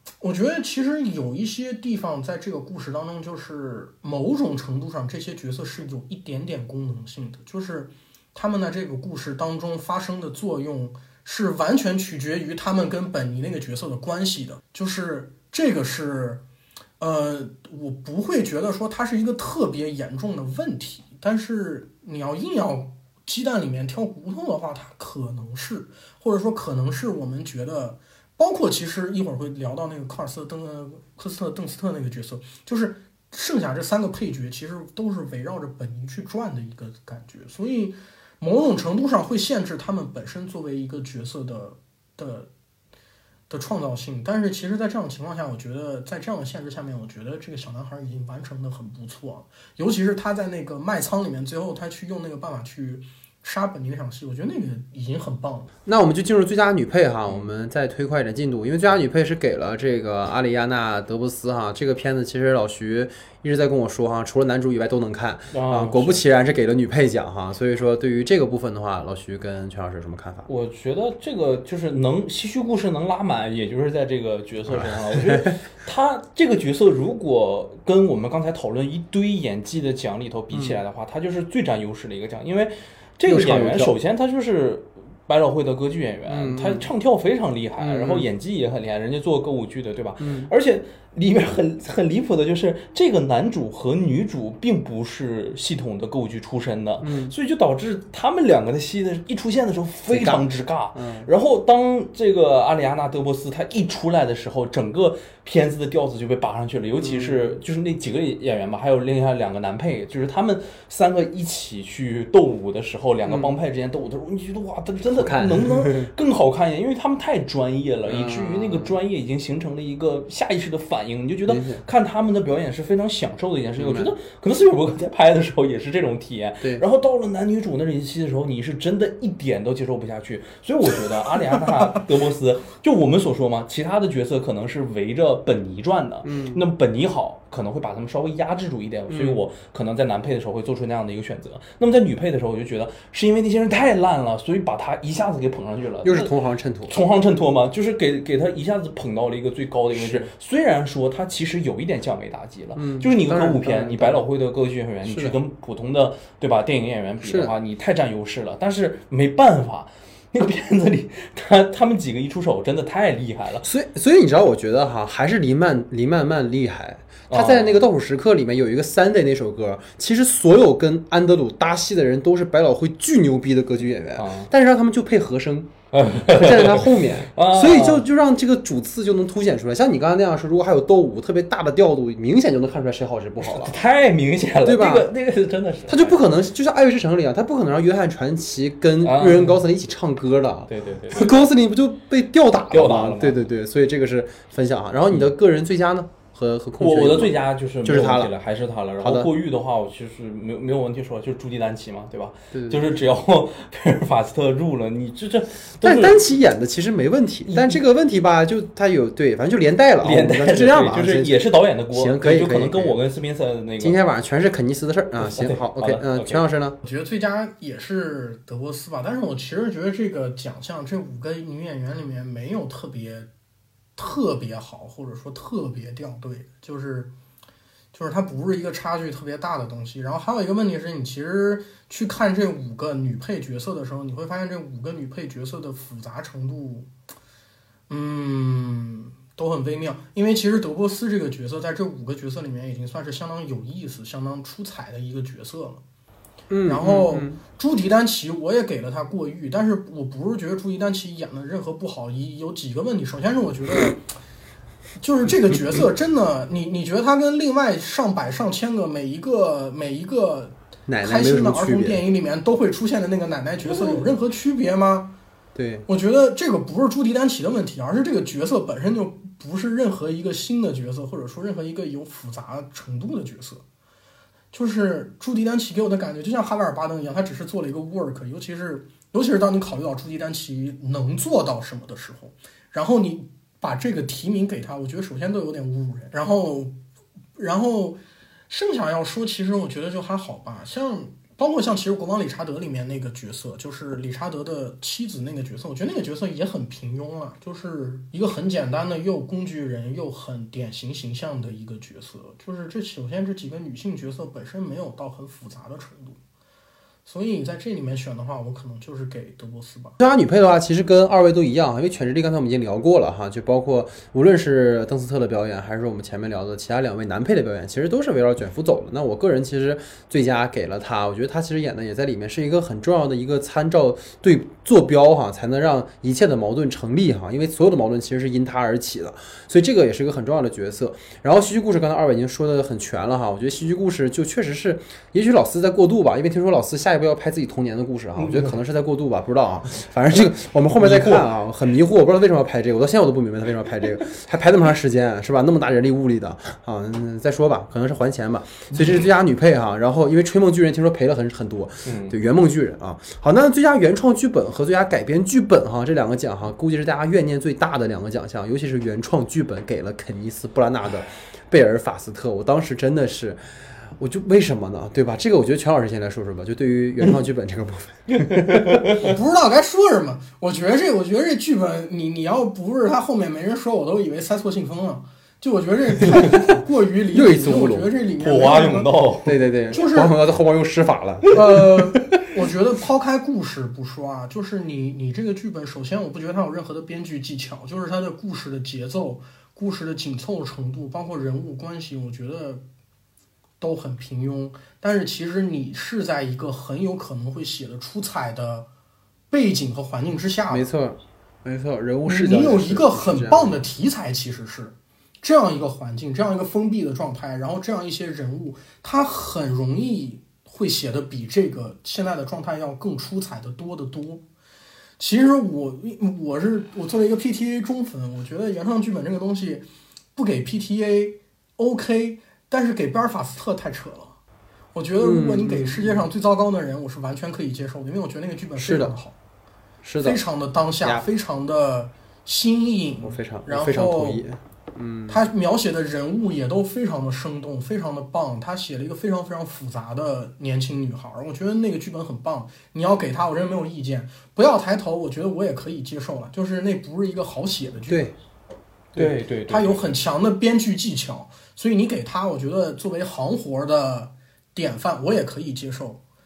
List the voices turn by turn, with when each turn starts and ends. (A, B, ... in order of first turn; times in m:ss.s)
0:00.2-0:16.4 A
0:17.0-0:42.5 A
0:43.5-0:55.7 A
0:55.8-1:10.5 B
1:05.5-1:06.2 C
1:10.4-2:26.3 C
1:14.7-1:15.6 B
1:20.5-1:20.8 B
1:23.3-1:23.9 B
1:26.3-1:26.9 B
1:27.8-1:28.2 B
1:30.2-1:30.5 B
1:37.0-1:37.3 B
1:40.1-1:41.3 B
1:47.0-1:47.6 B
1:53.3-1:53.5 B
1:55.1-1:56.1 B
1:58.1-1:58.9 B
2:01.5-2:01.8 B
2:03.8-2:04.1 B
2:16.2-2:16.6 B
2:19.1-2:19.4 B
2:26.0-2:27.0 B
2:26.9-2:43.6 C
2:29.9-2:30.3 B
2:32.8-2:34.2 B
2:35.1-2:35.4 B
2:37.2-2:37.5 B
2:43.6-3:03.7 B
2:47.3-2:47.9 C
2:54.2-2:54.5 C
2:55.9-2:58.0 C
3:03.4-3:06.2 C
3:04.6-3:05.1 B
3:05.9-3:18.3 B
3:09.0-3:09.6 C
3:10.7-3:11.3 C
3:12.7-3:13.4 C
3:16.8-3:26.2 C
3:19.0-3:19.3 B
3:22.5-3:22.8 B
3:25.8-3:31.3 B
3:27.4-3:27.8 C
3:30.0-3:34.0 C
3:31.9-3:33.0 B
3:33.8-3:36.8 B
3:35.2-3:36.4 C
3:36.8-3:43.3 A
3:44.0-3:47.1 A
3:47.9-3:56.9 A
3:57.9-4:05.8 A
4:06.5-4:07.4 B
4:06.6-4:14.0 A
4:15.0-4:25.1 A
4:20.9-4:22.0 B
4:23.6-4:24.0 B
4:25.5-4:25.9 B
4:25.9-4:33.6 A
4:34.5-4:46.7 A
4:47.4-4:48.0 A
4:48.5-5:06.2 A
5:07.0-5:09.9 A
5:10.0-6:03.4 B
5:38.1-5:38.6 C
5:40.8-5:41.2 C
5:48.7-5:49.0 C
5:51.8-5:52.1 C
6:03.9-6:09.1 B
6:08.1-6:09.0 C
6:09.0-6:19.0 A
6:16.0-6:16.3 B
6:17.1-6:17.9 B
6:18.2-6:19.4 C
6:19.2-6:21.8 B
6:19.7-6:20.2 A
6:21.3-6:32.6 A
6:33.6-6:38.7 A
6:39.3-6:40.7 A
6:40.5-6:43.6 B
6:42.0-6:54.2 A
6:55.0-7:04.2 A
7:04.7-7:09.1 A
7:05.0-7:06.0 B
7:08.6-7:08.9 B
7:09.8-7:10.2 B
7:10.0-7:14.2 A
7:13.0-7:15.2 B
7:15.1-7:28.1 A
7:27.9-7:28.1 B
7:28.9-7:30.0 C
7:29.5-7:36.0 A